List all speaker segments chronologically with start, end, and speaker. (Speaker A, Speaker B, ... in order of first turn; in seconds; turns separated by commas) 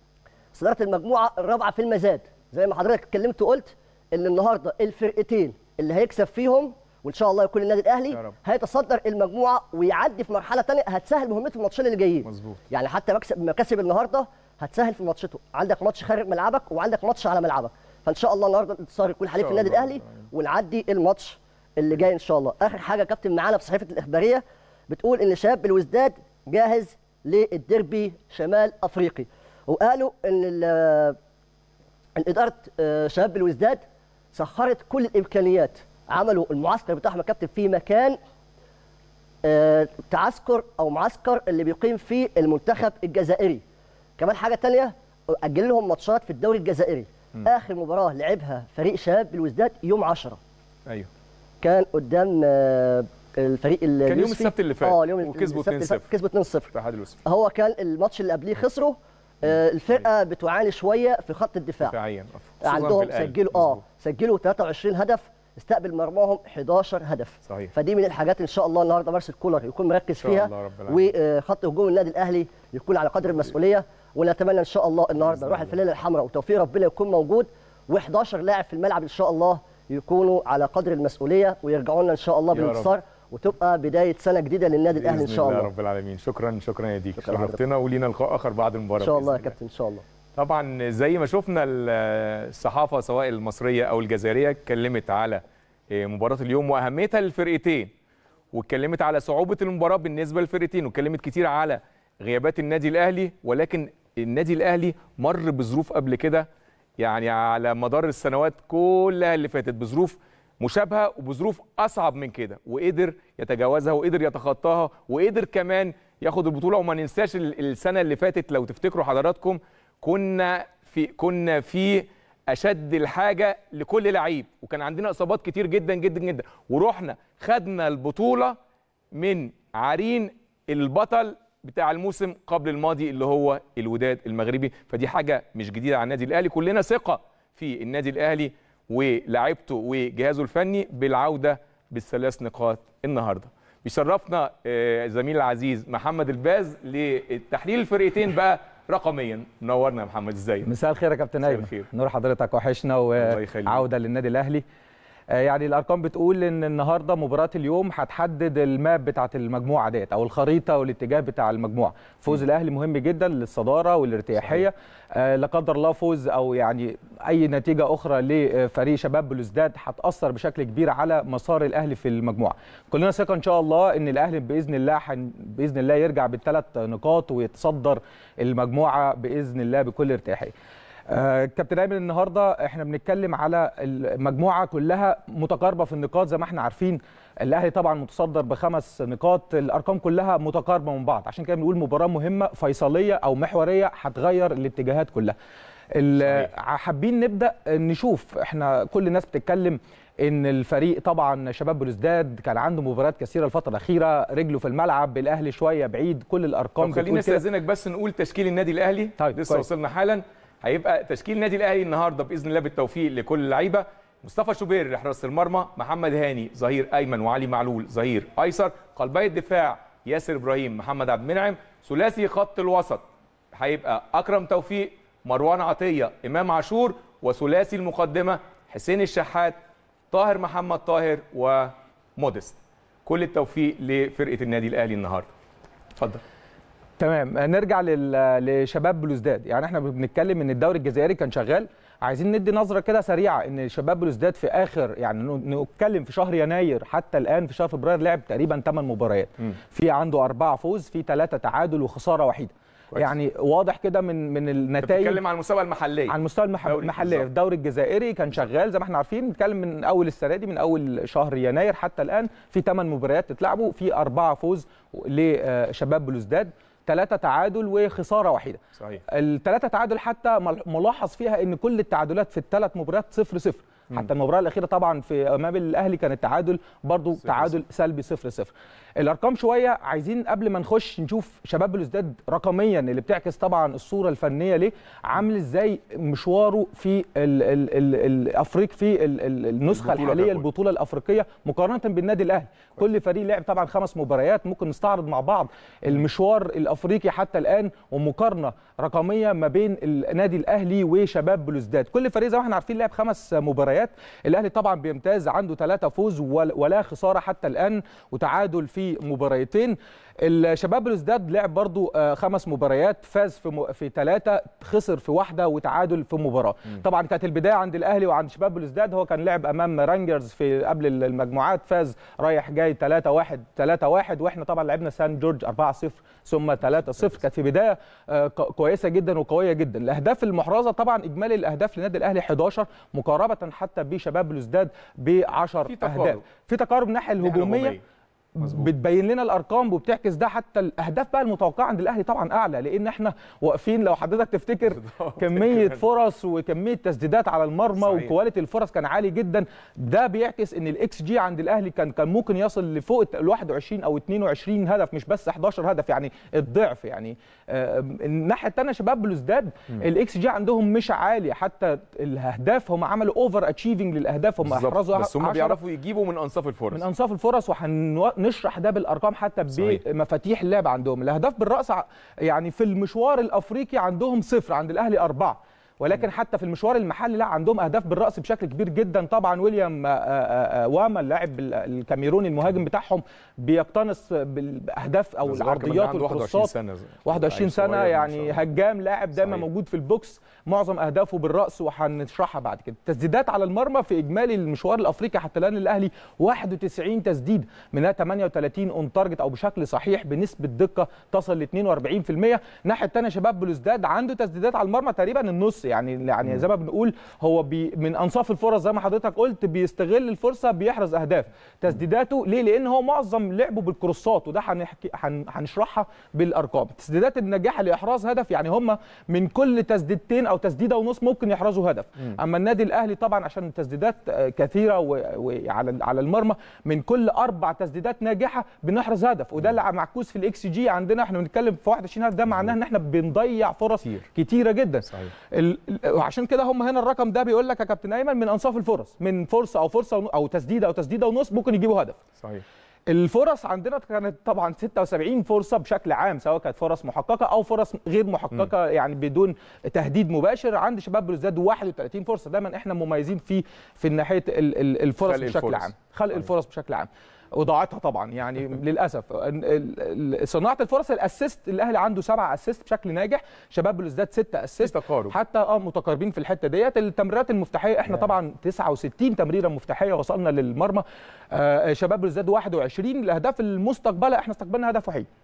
Speaker A: 0.6-31.2, Speaker B: 12.2-12.6, Speaker B: 19.4-20.3, Speaker A: 32.2-33.8, Speaker A: 34.3-38.2, Speaker A: 39.4-43.6, Speaker A: 44.2-50.4, Speaker A: 51.6-56.7, Speaker B: 54.0-56.1, Speaker B: 56.7-57.2, Speaker A: 57.2-61.9, Speaker B: 59.4-60.1, Speaker B: 61.8-63.8, Speaker A: 62.6-85.7, Speaker B: 67.5-67.7, Speaker B: 70.2-71.1, Speaker B: 75.2-75.8, Speaker B: 82.5-82.9, Speaker B: 84.9-89.5, Speaker A: 87.2-87.6, Speaker A: 89.0-90.0, Speaker B: 90.3-97.9, Speaker B: 98.5-106.5, Speaker B: 107.0-128.6, Speaker B: 129.1-150.7, Speaker C: 150.6-154.6, Speaker B: 151.4-151.9, Speaker B: 153.2-153.9, Speaker C: 155.3-180.5, Speaker B: 164.4-164.7, Speaker C: 181.1-195.4, Speaker C: 195.9-207.4, Speaker B: 196.2-196.5, Speaker B: 206.8-229.6, Speaker C: 209.2-209.7, Speaker B: 230.1-235.3, Speaker B: 236.0-236.2, Speaker C: 237.0-255.2, Speaker B: 254.8-257.3, Speaker C: 256.1-337.8, Speaker B: 268.8-269.0, Speaker B: 277.2-277.6, Speaker B: 289.7-290.5, Speaker B: 326.8-327.1, Speaker B: 335.6-336.2, Speaker B: 337.2-337.8, Speaker C: 338.4-365.6, Speaker B: 338.4-338.7, Speaker B: 344.6-345.8, Speaker B: 347.8-348.1, Speaker B: 364.4-366.8, Speaker C: 366.7-386.5, Speaker B: 369.5-369.8, Speaker B: 385.2-388.4, Speaker C: 387.1-442.0, Speaker B: 389.2-389.4, Speaker B: 442.2-442.4, Speaker C: 442.9-475.1, Speaker B: 455.0-456.3, Speaker B: 464.6-465.1